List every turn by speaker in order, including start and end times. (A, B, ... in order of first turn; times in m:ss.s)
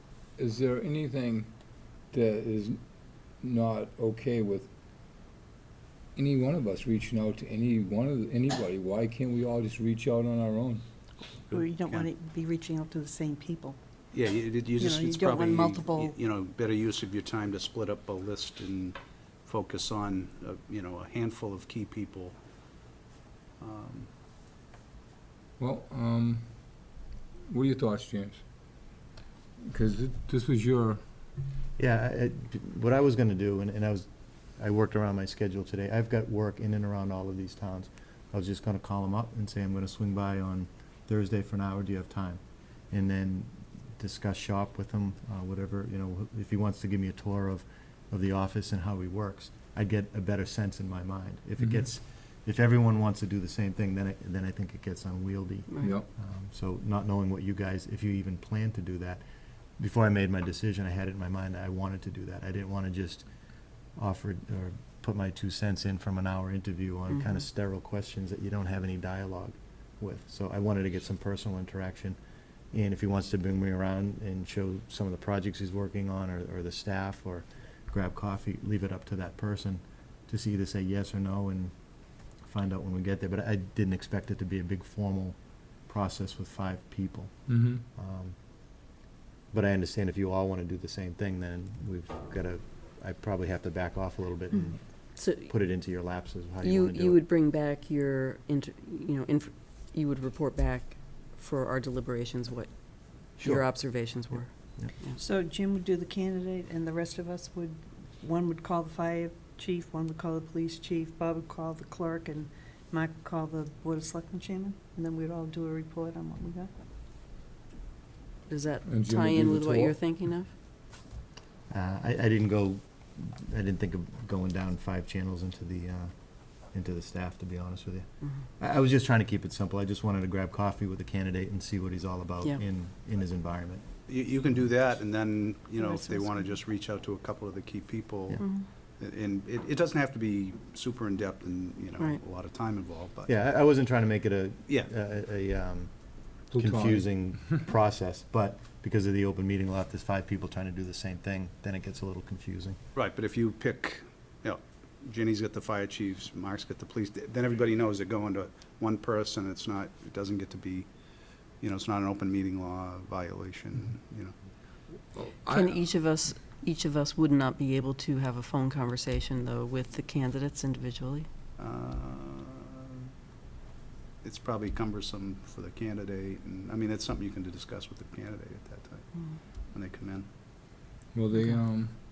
0:00.4-0:01.5 A
0:02.1-0:02.8 A
0:03.4-0:04.7 A
0:06.2-0:10.8 A
0:11.5-0:12.1 B
0:11.5-0:13.8 C
0:14.1-0:22.4 B
0:14.8-0:16.1 C
0:23.6-0:24.1 B
0:25.6-0:26.5 A
0:27.5-0:28.4 A
0:29.6-0:31.0 A
0:31.8-0:59.2 D
0:55.8-0:56.0 A
0:59.8-1:03.3 D
1:03.9-1:12.2 D
1:07.1-1:07.4 E
1:12.7-1:28.4 D
1:27.5-1:27.8 A
1:29.5-1:37.2 D
1:35.2-1:35.5 E
1:36.6-1:45.2 E
1:43.4-1:44.9 D
1:45.2-1:56.7 C
1:58.5-2:00.5 E
1:58.8-2:00.0 A
2:01.7-2:08.0 D
2:08.6-2:13.9 D
2:14.1-2:23.3 B
2:15.8-2:16.4 E
2:18.4-2:18.6 E
2:23.3-2:32.8 D
2:26.5-2:27.0 A
2:33.0-2:40.9 B
2:41.6-2:44.3 B
2:45.1-2:45.8 A
2:45.5-2:51.3 E
2:51.6-2:53.1 B
2:54.2-3:00.3 B
3:01.1-3:02.0 A